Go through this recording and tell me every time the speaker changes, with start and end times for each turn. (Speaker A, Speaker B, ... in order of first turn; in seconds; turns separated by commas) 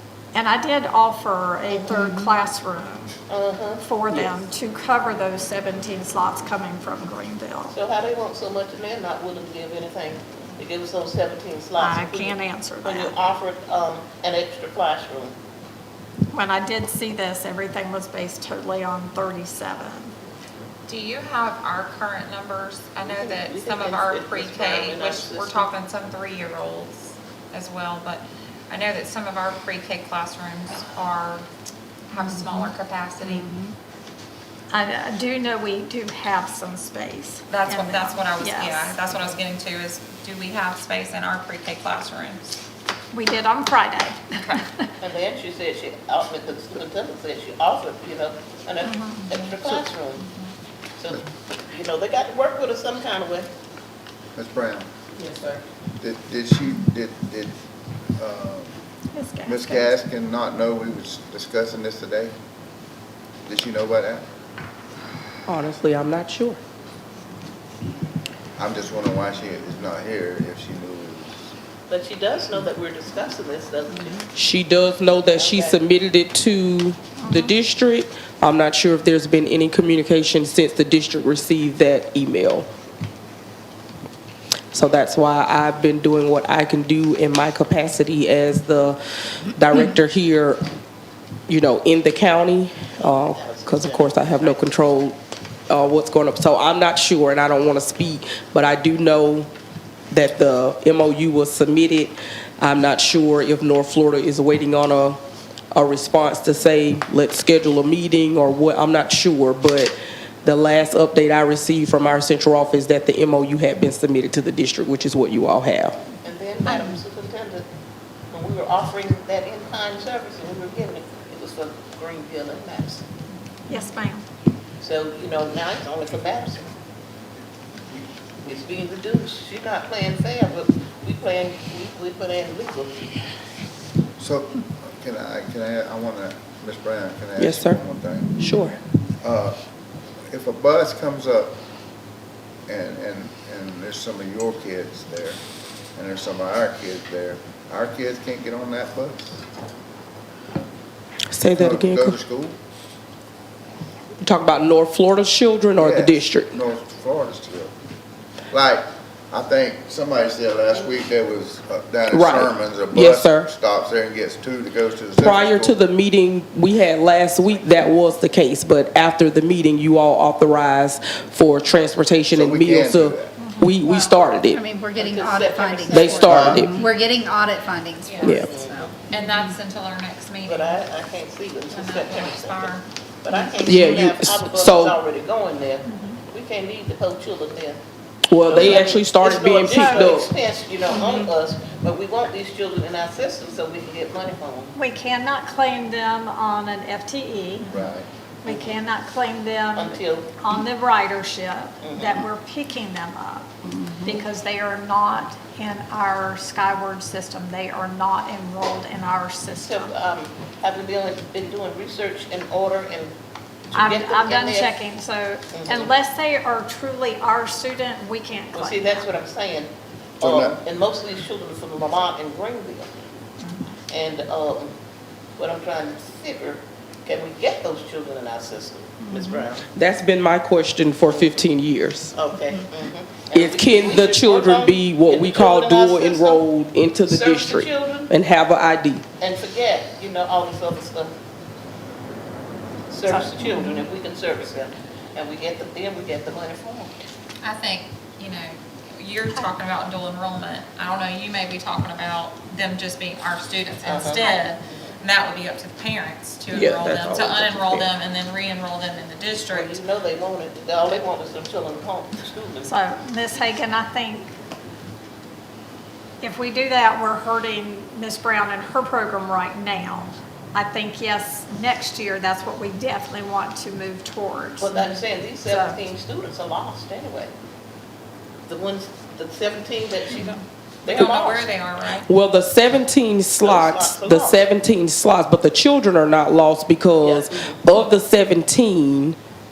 Speaker A: 0.3-3.1, Speaker B: 1.7-2.0, Speaker C: 1.9-2.4, Speaker B: 3.3-4.3, Speaker A: 3.8-7.8, Speaker B: 7.7-15.3, Speaker A: 11.8-13.2, Speaker A: 16.3-20.1, Speaker D: 20.9-31.5, Speaker B: 23.0-25.7, Speaker D: 32.1-33.5, Speaker C: 32.1-33.7, Speaker A: 34.7-39.0, Speaker D: 37.5-42.6, Speaker A: 43.1-44.9, Speaker B: 45.0-50.2, Speaker A: 48.9-49.4, Speaker B: 51.0-53.5, Speaker E: 54.4-54.9, Speaker F: 55.2-55.6, Speaker E: 56.0-57.5, Speaker E: 58.2-58.8, Speaker A: 59.1-59.9, Speaker E: 59.4-62.3, Speaker E: 63.4-64.2, Speaker F: 65.5-66.6, Speaker E: 68.6-71.5, Speaker B: 71.9-74.2, Speaker F: 74.3-82.7, Speaker B: 75.0-75.9, Speaker A: 77.2-77.5, Speaker F: 84.7-90.6, Speaker F: 91.5-95.2, Speaker B: 93.0-94.7, Speaker F: 95.7-99.5, Speaker F: 100.1-105.2, Speaker F: 105.7-116.0, Speaker B: 116.2-117.6, Speaker A: 116.7-116.9, Speaker B: 118.3-123.0, Speaker A: 123.7-124.2, Speaker B: 124.8-126.7, Speaker B: 128.4-133.1, Speaker E: 134.2-138.3, Speaker F: 137.4-137.8, Speaker F: 138.4-138.8, Speaker E: 139.2-139.6, Speaker E: 140.3-141.6, Speaker E: 142.7-145.4, Speaker E: 145.9-149.4, Speaker F: 151.3-152.2, Speaker E: 151.5-152.6, Speaker F: 154.2-156.5, Speaker E: 155.8-157.7, Speaker E: 158.5-165.8, Speaker F: 162.1-163.5, Speaker F: 165.2-174.6, Speaker E: 172.3-173.4, Speaker A: 173.4-174.1, Speaker C: 174.4-179.5, Speaker B: 174.9-176.5, Speaker F: 175.9-176.8, Speaker E: 176.2-176.7, Speaker D: 178.0-178.4, Speaker F: 178.2-178.5, Speaker B: 178.3-179.0, Speaker D: 179.1-180.8, Speaker B: 180.4-187.8, Speaker D: 181.7-182.8, Speaker F: 183.6-185.0, Speaker A: 185.8-186.2, Speaker F: 188.3-190.3, Speaker B: 188.4-194.7, Speaker A: 189.6-190.1, Speaker F: 190.9-191.3, Speaker A: 194.7-197.7, Speaker E: 197.7-198.1, Speaker A: 198.4-203.5, Speaker B: 198.4-198.7, Speaker B: 199.8-200.3, Speaker B: 201.8-202.2, Speaker C: 203.6-204.2, Speaker A: 204.0-209.9, Speaker B: 209.6-213.1, Speaker B: 213.7-214.7, Speaker A: 213.7-219.1, Speaker B: 215.5-215.9, Speaker B: 218.5-219.7, Speaker E: 220.2-220.6, Speaker B: 220.2-222.9, Speaker B: 223.9-224.7, Speaker B: 225.4-229.7, Speaker F: 229.7-232.2, Speaker B: 231.0-231.5, Speaker B: 232.1-236.5, Speaker F: 233.3-239.0, Speaker B: 237.0-238.1, Speaker B: 239.2-241.1, Speaker B: 242.9-246.9, Speaker A: 243.1-243.8, Speaker D: 247.4-259.8, Speaker B: 253.8-254.9, Speaker F: 256.5-257.9, Speaker B: 259.5-262.7, Speaker A: 262.6-264.3, Speaker A: 266.2-275.8, Speaker B: 274.6-277.3, Speaker B: 278.5-281.5, Speaker D: 280.9-282.1, Speaker F: 282.1-289.2, Speaker B: 283.4-284.5, Speaker B: 287.0-287.6